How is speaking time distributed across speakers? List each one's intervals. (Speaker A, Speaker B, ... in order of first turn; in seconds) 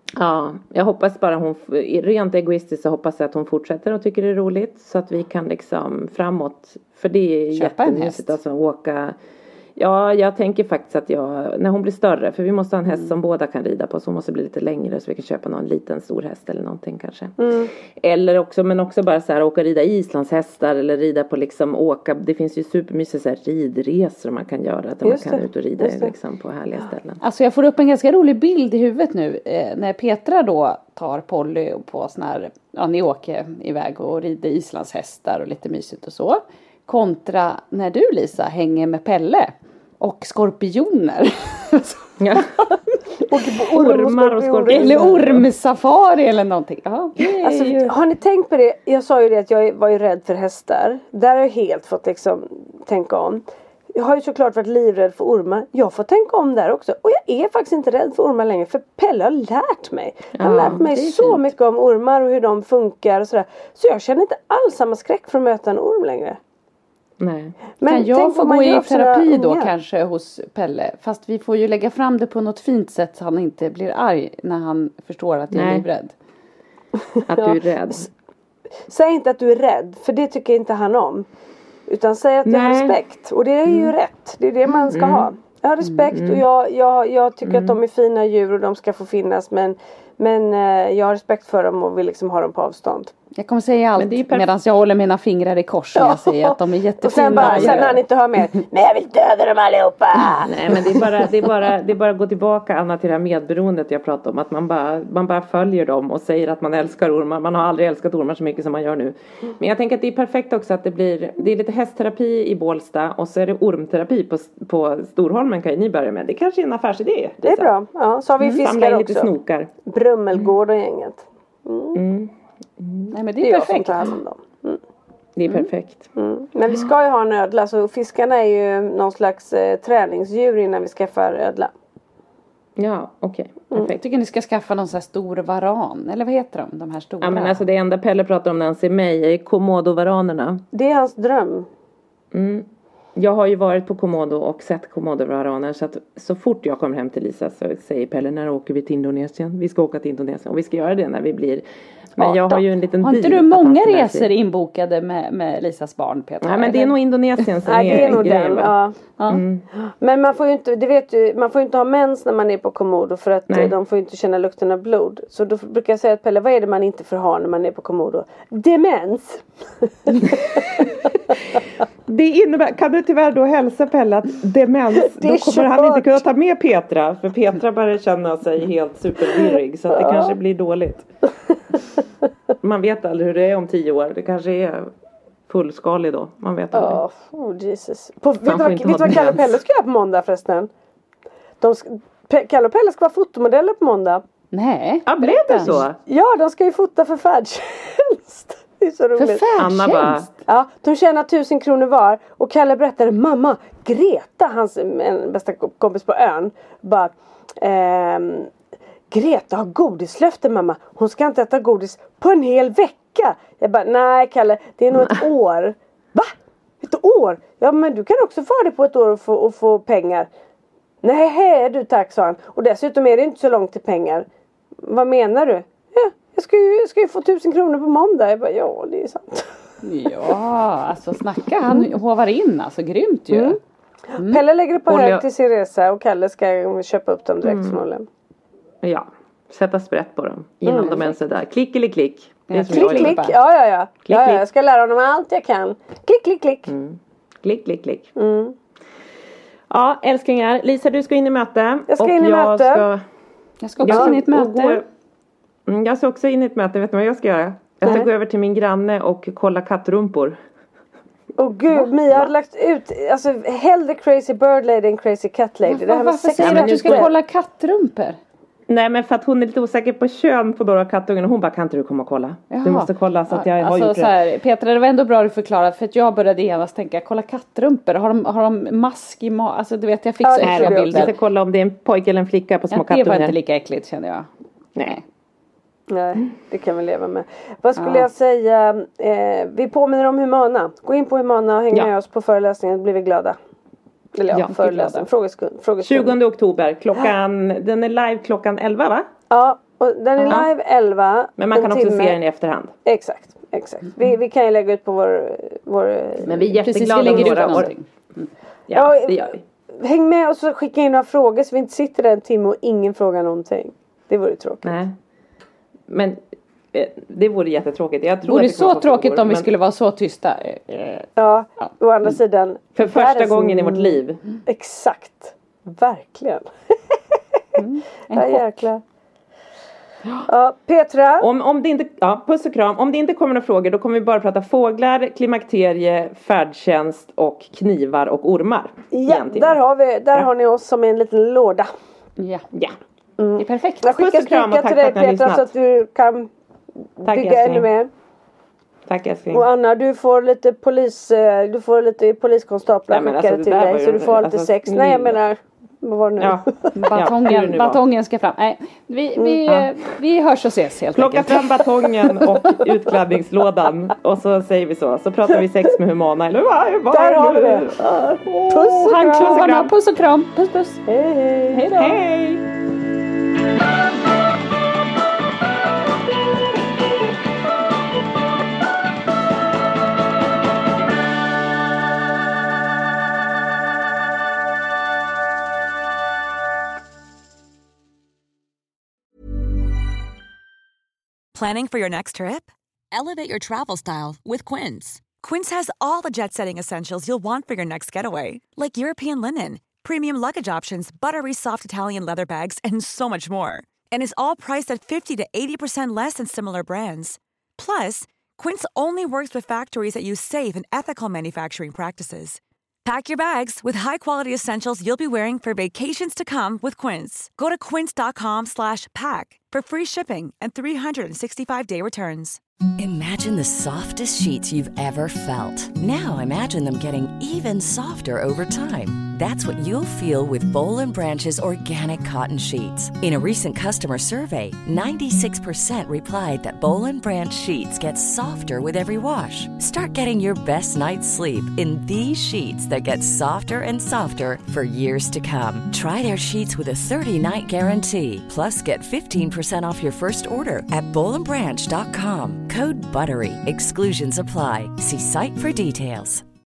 Speaker A: 0.2-9.2, 9.8-17.3, 18.0-27.2, 42.2-42.5, 43.7-45.5, 60.4-61.4, 67.2-67.5, 75.5-75.8, 77.3-78.1, 82.5-83.0, 83.7-83.9, 84.9-85.3, 86.1-86.4, 87.4-87.8, 94.0-94.5, 97.2-97.9, 100.5-117.7, 118.6-119.7, 121.9-123.1, 125.3-126.1, 132.8-134.0, 137.2-140.6, 142.3-151.6, 152.2-154.3, 156.4-158.7, 159.3-159.6, 172.1-181.1, 182.6-184.9, 185.5-187.0, 188.4-189.5, 195.1-195.9, 199.6-200.3, 234.8-235.2, 237.4-237.8, 238.8-243.2, 244.1-244.4, 246.7-248.1, 249.7-253.0, 253.8-254.8, 255.7-260.4, 266.4-267.1, 268.7-274.1, 280.4-283.4, 295.8-299.1, 301.4-302.7, 306.2-307.7, 308.7-309.4, 314.6-314.9, 315.9-316.2, 316.7-319.5, 322.8-324.2, 331.2-339.6, 343.9-345.5, 347.1-347.7, 348.9-349.4, 352.9-355.2, 356.2-357.8, 360.9-369.7, 371.7-372.4
Speaker B: 7.5-8.3, 27.2-42.0, 44.7-47.9, 67.8-76.1, 93.3-98.0, 123.1-124.1, 134.0-137.6, 152.2-156.9, 159.2-159.4, 194.5-195.7, 199.2-200.3, 229.8-233.6, 240.8-241.1, 242.5-243.3, 253.6-254.8, 265.6-268.2, 272.5-281.1, 282.7-284.3, 287.8-288.1, 294.5-295.0, 306.6-307.9, 318.2-321.7, 327.6-328.6, 342.2-342.4, 343.4-343.9, 356.7-361.4, 368.3-370.8, 371.5-372.0
Speaker C: 17.4-17.7, 25.0-26.1, 43.3-45.2, 47.4-53.4, 53.9-66.4, 67.8-69.7, 77.1-77.6, 78.9-81.2, 81.9-93.1, 96.0-101.3, 117.4-119.3, 119.8-122.0, 123.4-124.8, 126.2-131.7, 140.7-141.7, 157.7-159.0, 160.0-170.9, 175.0-176.2, 179.9-180.3, 186.7-190.7, 191.6-194.2, 195.2-199.5, 200.4-208.5, 209.1-220.3, 221.0-224.2, 224.8-229.6, 233.3-233.6, 234.1-238.1, 240.6-241.0, 242.7-246.7, 248.2-248.5, 251.9-252.8, 253.8-254.1, 257.8-258.1, 261.4-267.1, 280.2-281.1, 285.9-293.4, 294.1-296.1, 299.3-302.2, 302.8-307.5, 308.7-314.7, 321.2-326.9, 328.1-328.8, 330.3-331.3, 338.9-341.7, 343.2-346.3, 347.0-347.9, 349.3-356.7, 366.9-369.5, 370.9-371.6
Speaker D: 391.3-422.4
Speaker E: 422.8-456.2